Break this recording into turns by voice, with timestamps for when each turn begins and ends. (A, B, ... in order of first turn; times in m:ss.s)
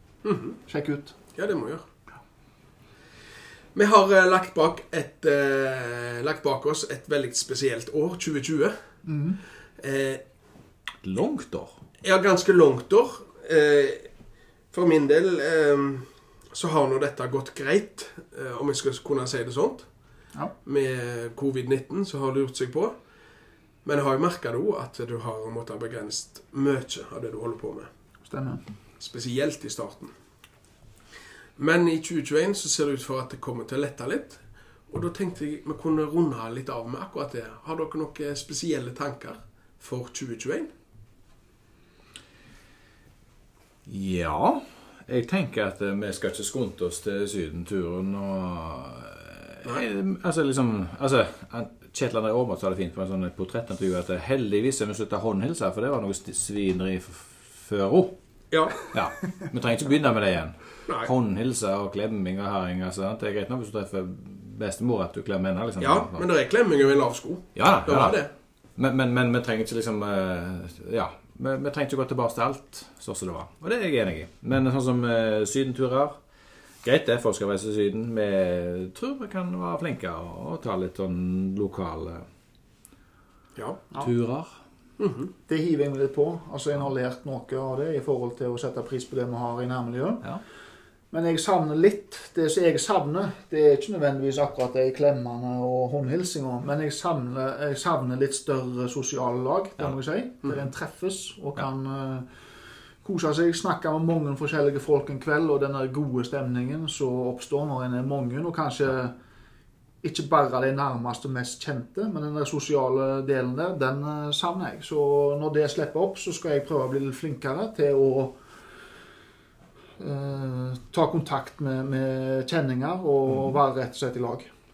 0:00.2-0:00.6 A
0:00.7-0:01.1 B
0:01.3-0:01.8 A
0:03.7-0:09.0 A
0:09.0-0:09.4 B
0:09.8-0:10.2 A
0:11.0-0:11.8 C
0:12.0-0:14.1 A
0:14.7-0:19.9 A
0:20.6-0:22.9 A
0:23.8-0:27.9 A
0:28.2-0:28.6 B
0:29.0-0:30.1 A
0:31.6-0:40.7 A
0:43.8-0:58.2 C
0:58.5-0:58.9 A
0:58.8-1:06.3 C
1:00.9-1:01.1 A
1:05.8-1:08.3 A
1:07.5-1:16.2 C
1:16.8-1:22.2 C
1:23.6-1:23.8 A
1:24.0-1:24.5 C
1:25.0-1:25.3 A
1:25.5-1:30.3 B
1:31.1-1:42.3 B
1:43.0-1:49.1 B
1:50.0-1:58.4 B
2:00.0-2:04.5 B